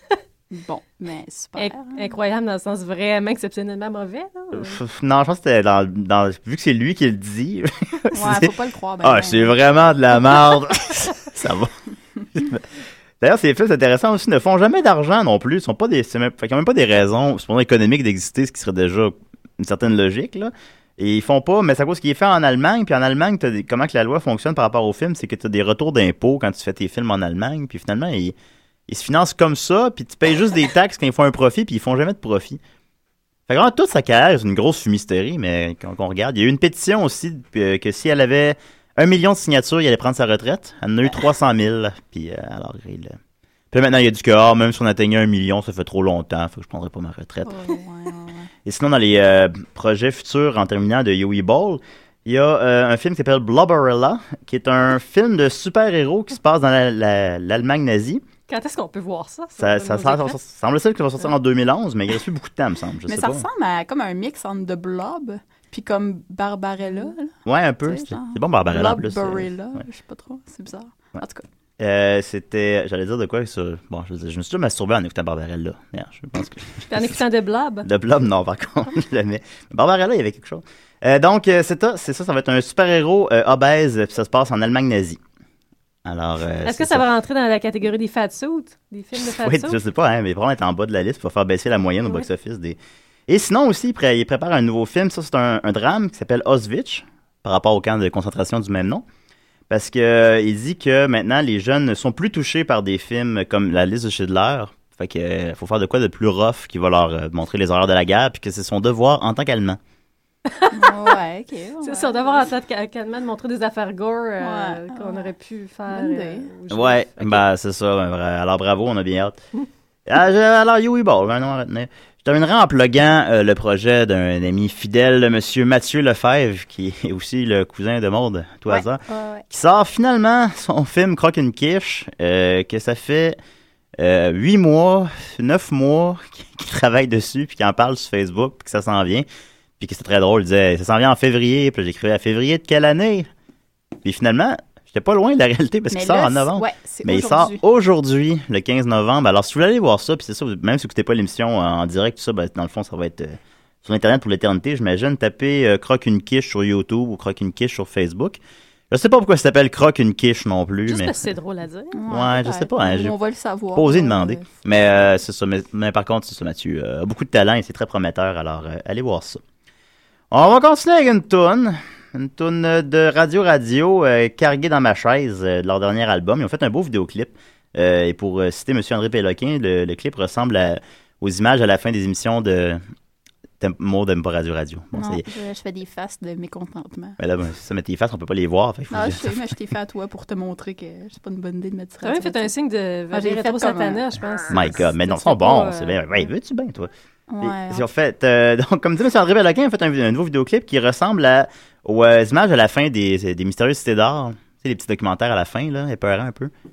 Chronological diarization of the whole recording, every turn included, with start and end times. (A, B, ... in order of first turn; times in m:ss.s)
0:00.5-0:02.0 A
0:01.6-0:04.8 B
0:04.5-0:08.5 C
0:08.1-0:09.6 A
0:09.0-0:11.7 C
0:12.3-0:12.6 C
0:13.2-0:28.4 C
0:28.9-0:32.6 C
0:33.5-0:43.2 C
0:43.7-0:47.7 C
0:47.4-0:48.5 A
0:48.6-0:58.2 C
0:58.5-1:00.4 B
0:59.6-1:03.4 C
1:03.1-1:07.3 A
1:07.5-1:09.5 C
1:07.8-1:11.4 A
1:11.8-1:17.2 C
1:16.9-1:17.9 B
1:17.8-1:25.2 C
1:26.0-1:27.0 C
1:26.6-1:29.8 B
1:29.2-1:39.0 C
1:39.7-1:49.8 C
1:50.6-1:51.2 B
1:50.7-1:52.5 A
1:51.8-1:57.5 B
1:54.4-1:55.3 A
1:55.9-1:56.5 A
1:56.7-1:59.4 C
2:00.1-2:13.4 C
2:08.7-2:09.4 A
2:14.0-2:19.3 C
2:19.8-2:23.3 C
2:24.0-2:38.4 C
2:25.9-2:27.6 A
2:38.9-2:41.3 C
2:40.9-2:42.0 B
2:41.9-2:44.5 A
2:42.1-2:43.2 C
2:43.8-2:49.4 C
2:50.3-3:02.8 C
3:03.6-3:05.2 C
3:05.0-3:07.2 A
3:07.2-3:09.5 C
3:08.9-3:12.5 A
3:12.0-3:16.1 B
3:13.1-3:14.0 A
3:14.5-3:16.9 C
3:17.3-3:17.9 A
3:17.4-3:26.5 C